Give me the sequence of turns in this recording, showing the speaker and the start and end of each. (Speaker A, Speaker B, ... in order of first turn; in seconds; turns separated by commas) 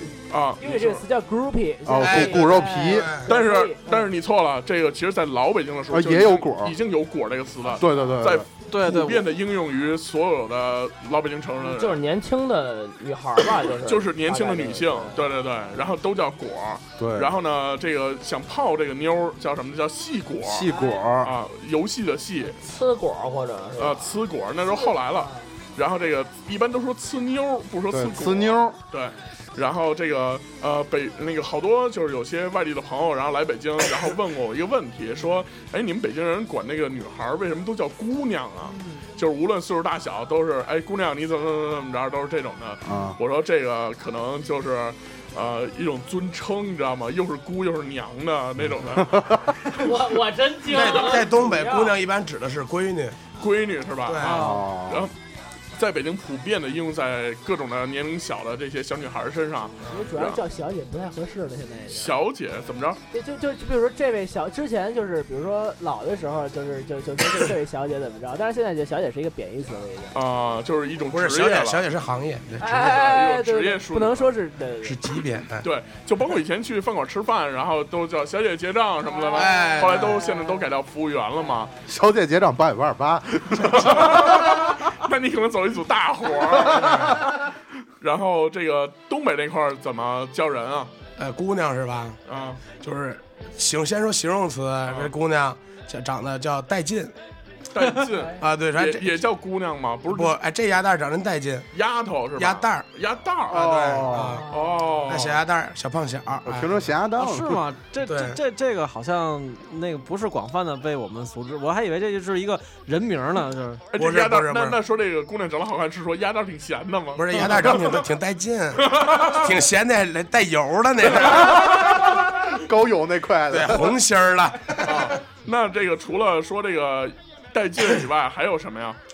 Speaker A: 0.3-1.0, Speaker B: 0.6-4.1, Speaker C: 1.8-3.1, Speaker D: 2.0-3.3, Speaker A: 3.2-12.0, Speaker C: 5.9-6.8, Speaker C: 7.7-8.5, Speaker E: 8.7-9.2, Speaker F: 11.6-15.2, Speaker A: 13.7-22.6, Speaker C: 17.0-17.3, Speaker C: 20.4-21.3, Speaker B: 20.6-21.0, Speaker F: 22.6-24.1, Speaker A: 23.8-50.0, Speaker B: 24.6-25.3, Speaker C: 27.9-28.8, Speaker C: 42.8-43.2, Speaker C: 48.6-49.4, Speaker F: 49.7-52.0, Speaker D: 50.6-53.2, Speaker A: 53.4-55.1, Speaker D: 54.0-54.4, Speaker B: 54.3-54.6, Speaker C: 54.3-55.1, Speaker A: 55.8-60.4, Speaker D: 59.8-60.1, Speaker B: 59.8-62.1, Speaker A: 61.9-63.0, Speaker B: 63.1-70.1, Speaker A: 70.1-71.8, Speaker D: 71.1-72.8, Speaker B: 72.6-75.2, Speaker A: 72.7-74.3, Speaker D: 74.8-75.7, Speaker A: 75.6-81.7, Speaker D: 79.3-80.3, Speaker C: 81.8-84.8, Speaker A: 83.5-87.4, Speaker C: 86.5-87.3, Speaker D: 86.7-87.2, Speaker A: 88.0-90.9, Speaker D: 91.2-97.1, Speaker A: 92.3-92.6, Speaker A: 97.7-100.3, Speaker D: 98.3-99.2, Speaker D: 100.1-101.7, Speaker A: 101.7-103.9, Speaker D: 102.3-102.8, Speaker C: 103.5-104.4, Speaker D: 103.5-104.5, Speaker A: 104.5-105.4, Speaker D: 105.0-106.8, Speaker C: 106.5-107.6, Speaker E: 107.2-113.8, Speaker D: 108.0-108.4, Speaker A: 113.9-118.0, Speaker D: 114.0-114.8, Speaker D: 117.1-121.7, Speaker A: 118.8-119.5, Speaker A: 121.1-122.0, Speaker C: 121.2-124.0, Speaker D: 123.5-125.2, Speaker A: 124.8-129.0